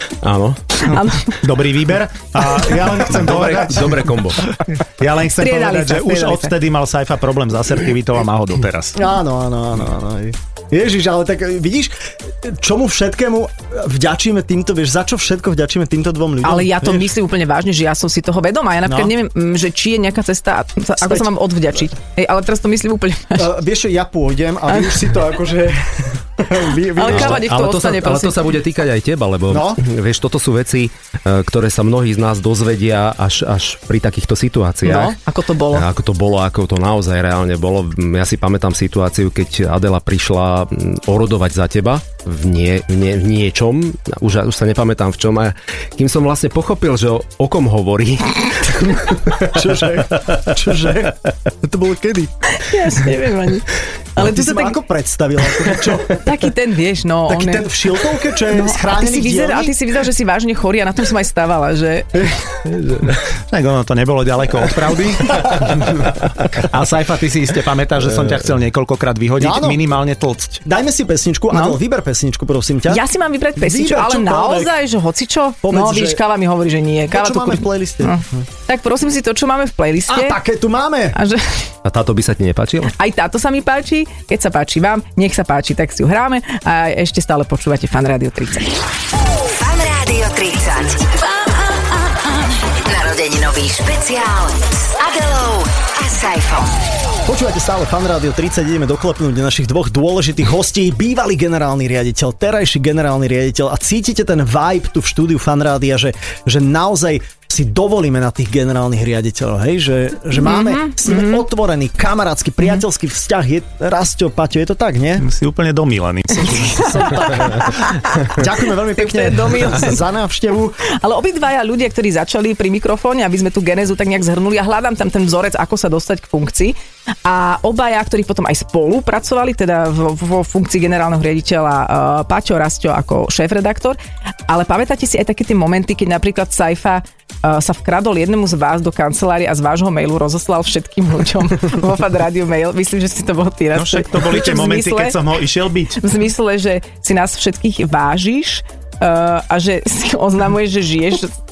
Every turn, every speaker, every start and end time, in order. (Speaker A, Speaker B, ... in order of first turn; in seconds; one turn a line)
Speaker A: 0.2-0.6
Speaker B: 0.8-1.4
Speaker C: 0.9-9.0
Speaker A: 3.1-4.4
Speaker B: 5.4-6.5
Speaker D: 8.9-17.1
Speaker B: 16.4-23.5
Speaker D: 18.9-19.1
Speaker D: 21.0-21.3
Speaker D: 23.4-27.4
Speaker B: 26.9-28.4
Speaker A: 27.1-35.2
Speaker D: 29.5-29.8
Speaker B: 34.8-35.9
Speaker A: 35.7-49.6
Speaker D: 49.5-52.3
Speaker B: 52.5-54.8
Speaker D: 54.2-56.2
Speaker B: 56.1-57.7
Speaker D: 57.3-59.8
Speaker B: 58.4-62.6
Speaker A: 62.8-63.1
Speaker C: 63.5-70.6
Speaker D: 69.4-69.8
Speaker D: 70.6-73.0
Speaker B: 71.5-71.8
Speaker B: 72.9-80.4
Speaker D: 73.6-74.7
Speaker D: 75.6-76.2
Speaker D: 77.1-78.5
Speaker D: 80.1-81.2
Speaker B: 81.1-81.6
Speaker A: 81.8-82.9
Speaker B: 83.0-88.7
Speaker E: 89.6-91.1
Speaker E: 92.8-96.8
Speaker D: 97.2-115.3
Speaker B: 110.4-111.4
Speaker C: 115.2-117.4
Speaker B: 116.4-118.4
Speaker D: 118.3-120.8
Speaker B: 119.0-120.0
Speaker B: 120.9-145.2
Speaker C: 143.7-146.0
Speaker B: 146.0-151.3